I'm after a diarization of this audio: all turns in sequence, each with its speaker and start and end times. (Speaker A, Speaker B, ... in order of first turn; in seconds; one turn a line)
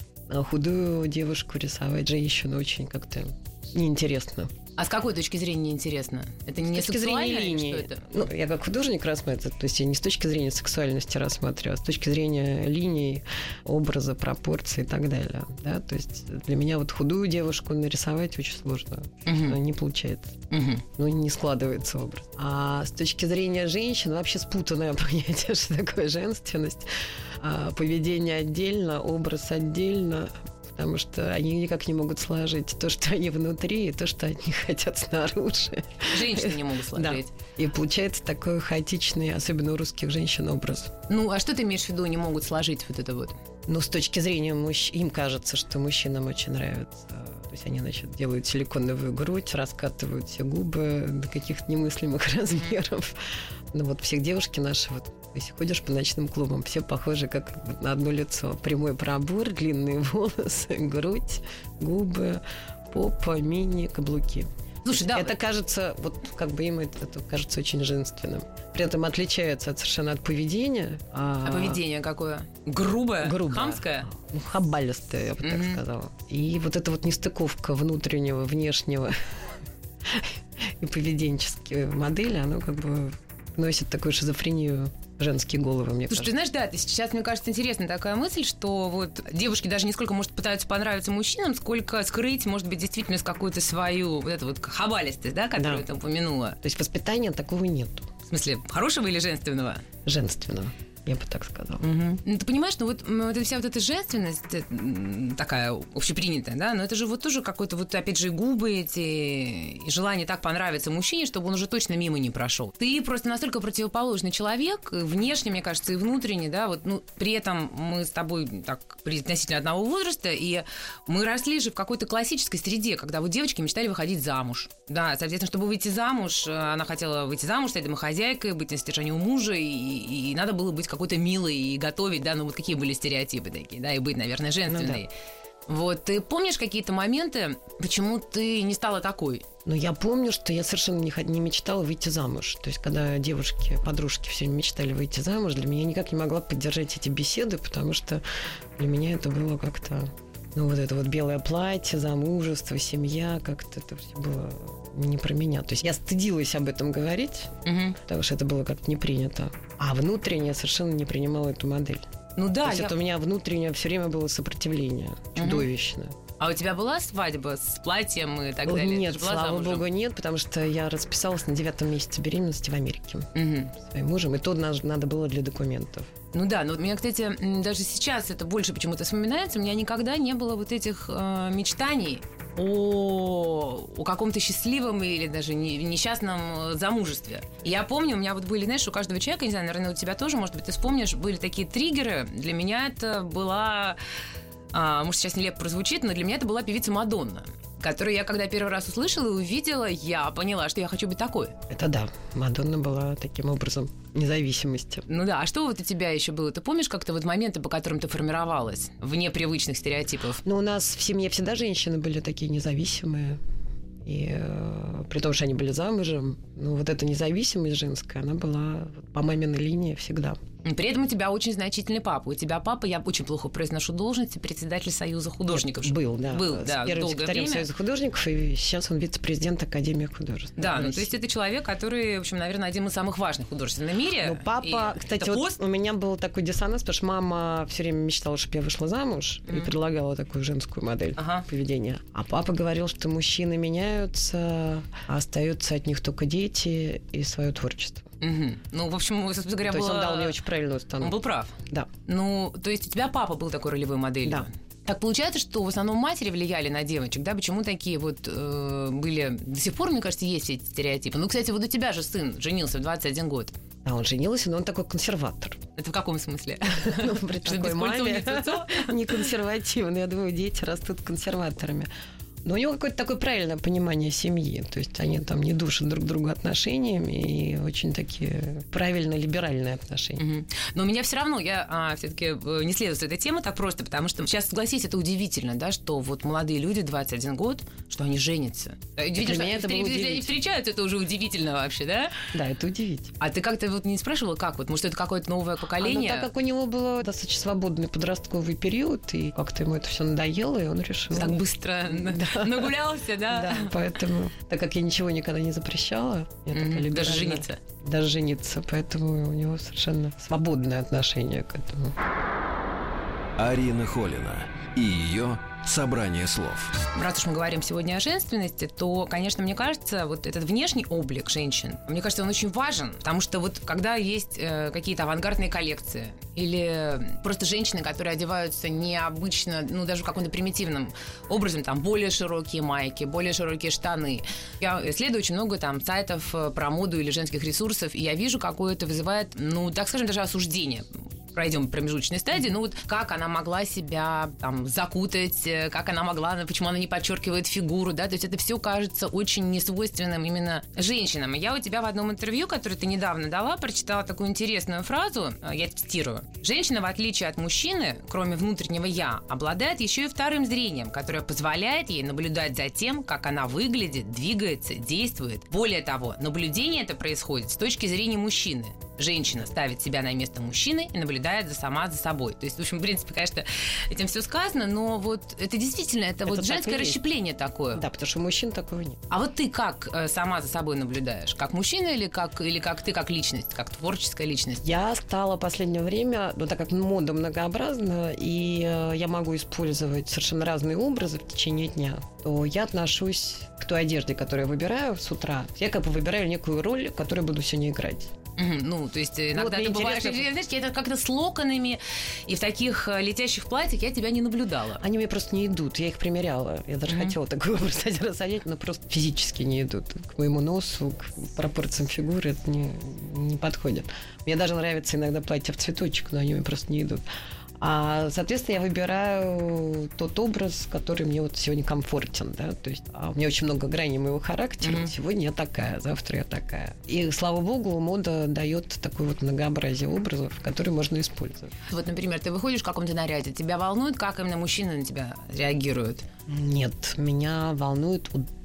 Speaker A: 0.3-4.5
Speaker B: 4.8-8.3
Speaker A: 6.6-20.4
Speaker B: 19.2-19.6
Speaker B: 20.5-20.8
Speaker A: 20.9-41.0
Speaker B: 36.1-37.3
Speaker B: 41.1-43.4
Speaker A: 43.7-71.8
Speaker B: 64.8-65.3
Speaker B: 71.4-74.1
Speaker A: 73.2-86.3
Speaker B: 75.4-75.8
Speaker B: 86.1-96.6
Speaker A: 95.5-95.8
Speaker A: 96.6-98.1
Speaker B: 98.3-99.8
Speaker A: 100.0-101.8
Speaker B: 101.8-135.1
Speaker A: 134.7-135.0
Speaker B: 135.7-139.4
Speaker A: 139.7-162.0
Speaker B: 157.6-158.0
Speaker B: 162.3-163.0
Speaker A: 162.6-166.2
Speaker B: 165.3-165.7
Speaker B: 166.4-169.8
Speaker A: 168.6-176.1
Speaker B: 173.3-173.7
Speaker B: 176.3-194.0
Speaker B: 194.7-201.5
Speaker A: 201.7-205.1
Speaker B: 205.1-210.4
Speaker A: 210.4-213.4
Speaker A: 214.0-220.4
Speaker B: 220.6-227.7
Speaker A: 225.5-231.1
Speaker B: 230.6-235.6
Speaker A: 234.2-248.1
Speaker B: 241.2-241.4
Speaker B: 248.2-250.4
Speaker A: 249.7-251.9
Speaker B: 251.0-263.5
Speaker A: 263.8-265.6
Speaker B: 265.8-269.1
Speaker A: 266.7-271.9
Speaker A: 272.4-280.2
Speaker B: 280.2-292.2
Speaker A: 289.1-290.3
Speaker A: 292.3-293.1
Speaker B: 293.2-296.3
Speaker A: 295.8-302.7
Speaker B: 301.1-303.8
Speaker A: 303.3-311.9
Speaker B: 306.5-307.6
Speaker C: 313.4-316.8
Speaker B: 316.9-377.8
Speaker A: 376.2-377.0
Speaker A: 377.7-379.0
Speaker B: 379.1-384.6
Speaker A: 384.6-398.1
Speaker B: 398.4-404.8
Speaker A: 399.3-400.3
Speaker A: 404.8-417.0
Speaker B: 406.9-407.1
Speaker A: 417.6-431.5
Speaker B: 424.6-424.9
Speaker B: 431.7-436.0
Speaker A: 436.3-438.3